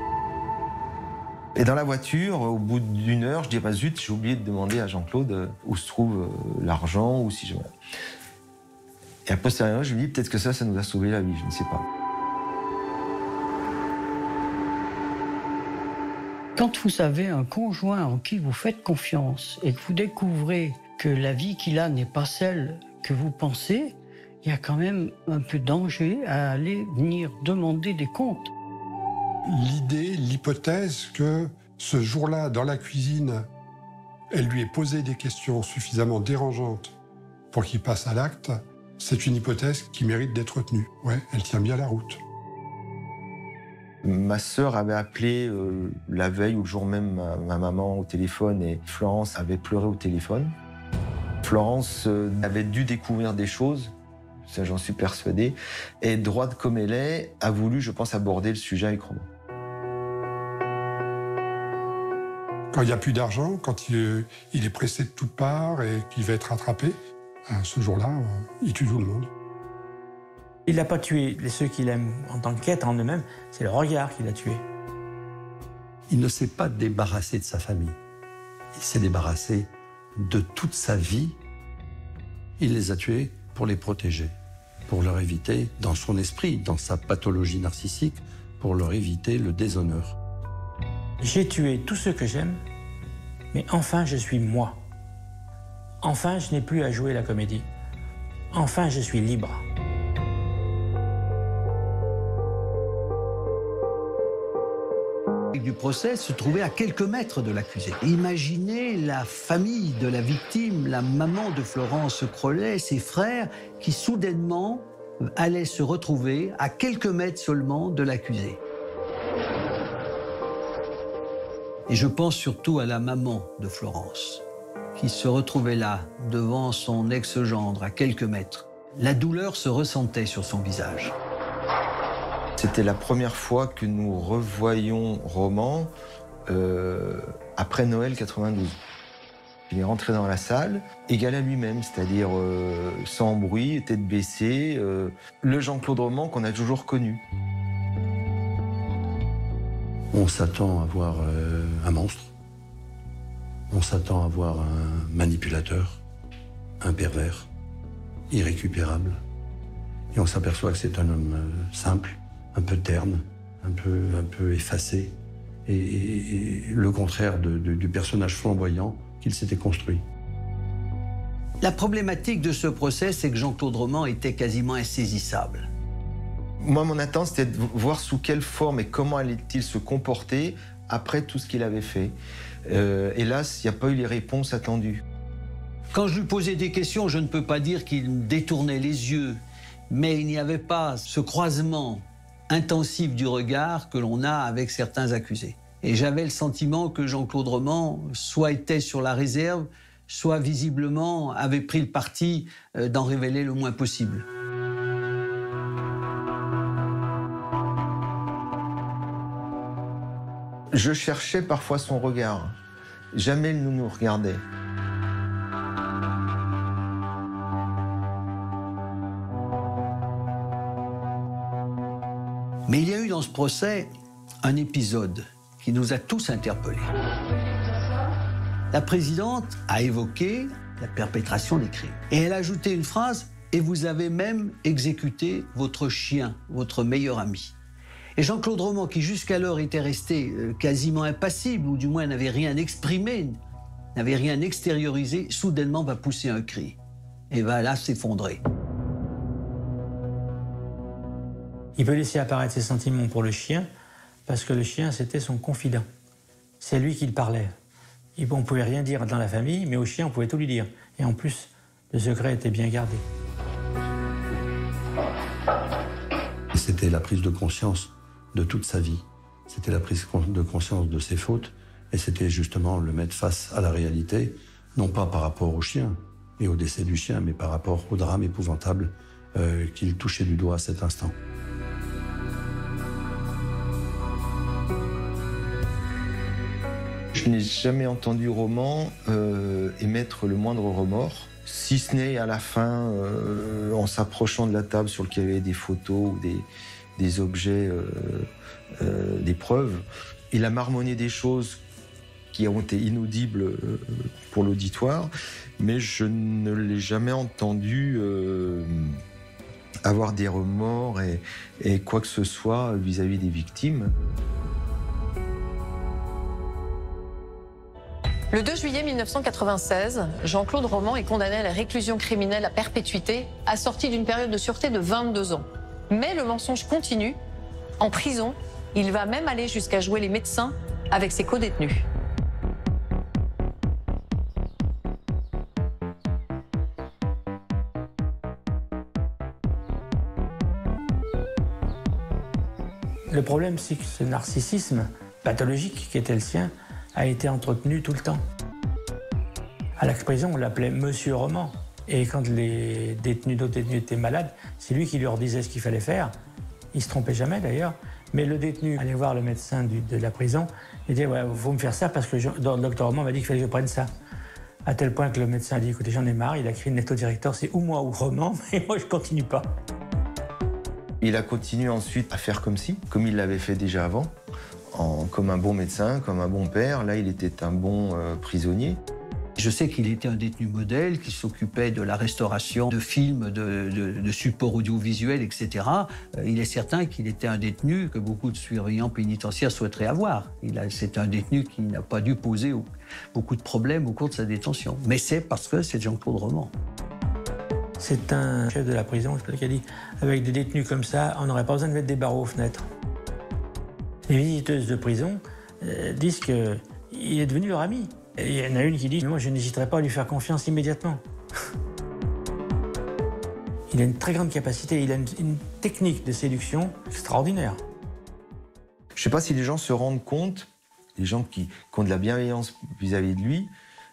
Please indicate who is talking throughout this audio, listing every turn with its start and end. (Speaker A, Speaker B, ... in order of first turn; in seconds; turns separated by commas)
Speaker A: 1.5-7.7, Speaker A: 9.2-11.8, Speaker B: 16.6-28.5, Speaker C: 29.4-33.5, Speaker C: 34.3-36.9, Speaker C: 37.5-42.2, Speaker A: 44.0-50.5, Speaker A: 51.4-53.9, Speaker A: 54.5-59.3, Speaker C: 62.7-69.3, Speaker D: 70.7-74.6, Speaker E: 76.1-78.0, Speaker E: 78.7-81.4, Speaker E: 82.6-84.3, Speaker E: 84.9-90.2, Speaker D: 91.2-92.6, Speaker D: 93.5-94.8, Speaker D: 96.0-97.7, Speaker D: 98.5-99.6, Speaker F: 105.5-118.6, Speaker F: 121.9-124.4, Speaker F: 125.0-131.1, Speaker A: 132.6-135.9, Speaker A: 136.5-138.8, Speaker A: 139.7-147.2, Speaker E: 150.1-152.3, Speaker E: 153.7-156.0, Speaker E: 156.8-157.5, Speaker E: 158.3-159.2, Speaker E: 160.1-170.0, Speaker F: 171.6-175.7, Speaker A: 176.6-185.0, Speaker F: 185.9-204.2, Speaker A: 210.7-212.6, Speaker A: 213.1-214.4, Speaker F: 222.7-223.9, Speaker F: 224.4-226.9, Speaker F: 228.7-237.5, Speaker F: 238.2-243.4, Speaker F: 243.9-246.8, Speaker F: 247.3-248.4, Speaker D: 251.8-253.7, Speaker D: 254.2-255.8, Speaker D: 256.6-257.5, Speaker D: 258.2-263.0, Speaker E: 266.5-281.1, Speaker A: 287.1-301.6, Speaker A: 302.3-309.0, Speaker A: 309.8-313.9, Speaker G: 318.3-327.2, Speaker G: 327.8-331.9, Speaker D: 343.1-348.2, Speaker D: 349.8-356.1, Speaker D: 356.7-363.9, Speaker D: 364.6-369.5, Speaker A: 371.0-374.1, Speaker A: 374.7-378.8, Speaker F: 379.4-396.5, Speaker D: 397.8-402.6, Speaker D: 404.1-411.0, Speaker D: 413.7-417.6, Speaker A: 418.9-423.5